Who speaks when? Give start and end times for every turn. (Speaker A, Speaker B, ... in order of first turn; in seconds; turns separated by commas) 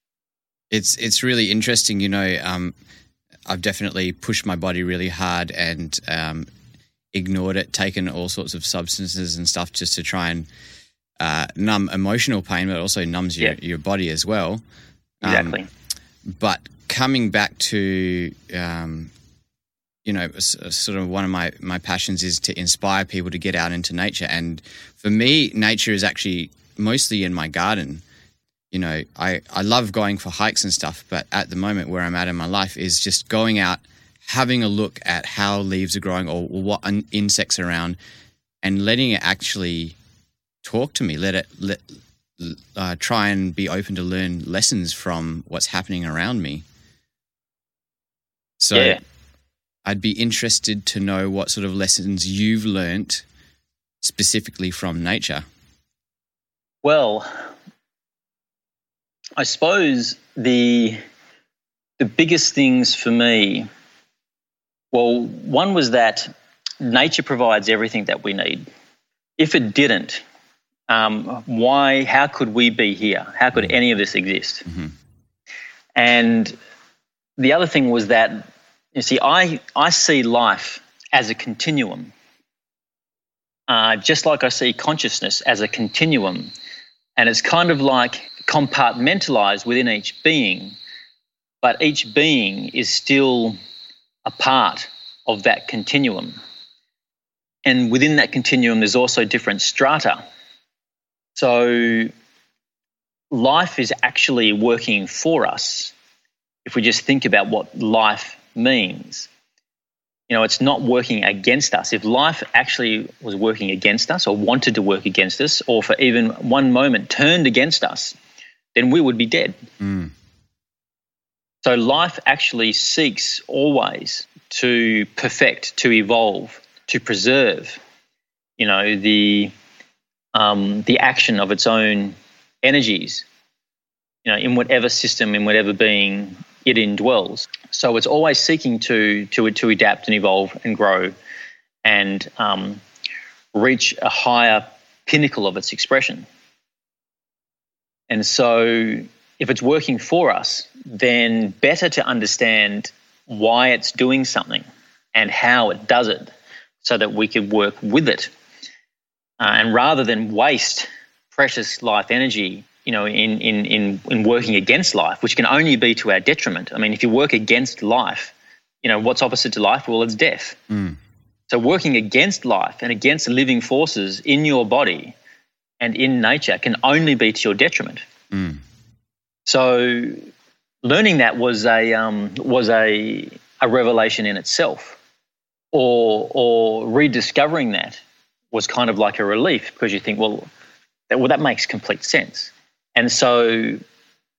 Speaker A: 0.7-2.7, Speaker A: 3.5-6.5, Speaker A: 7.1-10.5, Speaker A: 11.2-14.6, Speaker A: 15.2-15.6, Speaker B: 15.2-15.7, Speaker A: 16.3-19.1, Speaker A: 20.0-28.0, Speaker A: 28.7-38.0, Speaker A: 38.6-40.0, Speaker A: 40.6-41.8, Speaker A: 42.4-46.6, Speaker A: 48.6-49.0, Speaker B: 48.7-49.0, Speaker A: 49.8-53.2, Speaker A: 54.0-55.4, Speaker B: 56.8-57.3, Speaker B: 59.4-61.0, Speaker B: 62.0-63.7, Speaker B: 64.9-68.7, Speaker B: 69.4-70.2, Speaker B: 70.9-74.6, Speaker B: 76.0-76.5, Speaker B: 77.4-82.1, Speaker B: 83.7-86.5, Speaker B: 87.2-90.8, Speaker B: 91.6-93.6, Speaker B: 94.2-96.4, Speaker B: 97.7-100.2, Speaker B: 101.3-102.1, Speaker B: 103.3-105.9, Speaker B: 106.6-109.3, Speaker B: 110.3-118.2, Speaker B: 118.7-119.5, Speaker A: 119.8-120.1, Speaker B: 121.6-127.8, Speaker B: 128.6-129.5, Speaker B: 130.3-133.2, Speaker B: 134.2-141.1, Speaker B: 141.8-142.8, Speaker B: 143.5-146.2, Speaker B: 148.1-158.3, Speaker B: 159.4-170.6, Speaker A: 170.7-171.0, Speaker B: 171.5-175.1, Speaker B: 175.8-178.0, Speaker A: 178.3-178.6, Speaker B: 179.4-180.2, Speaker B: 180.8-185.0, Speaker B: 185.7-188.0, Speaker B: 188.5-190.5, Speaker B: 191.1-193.8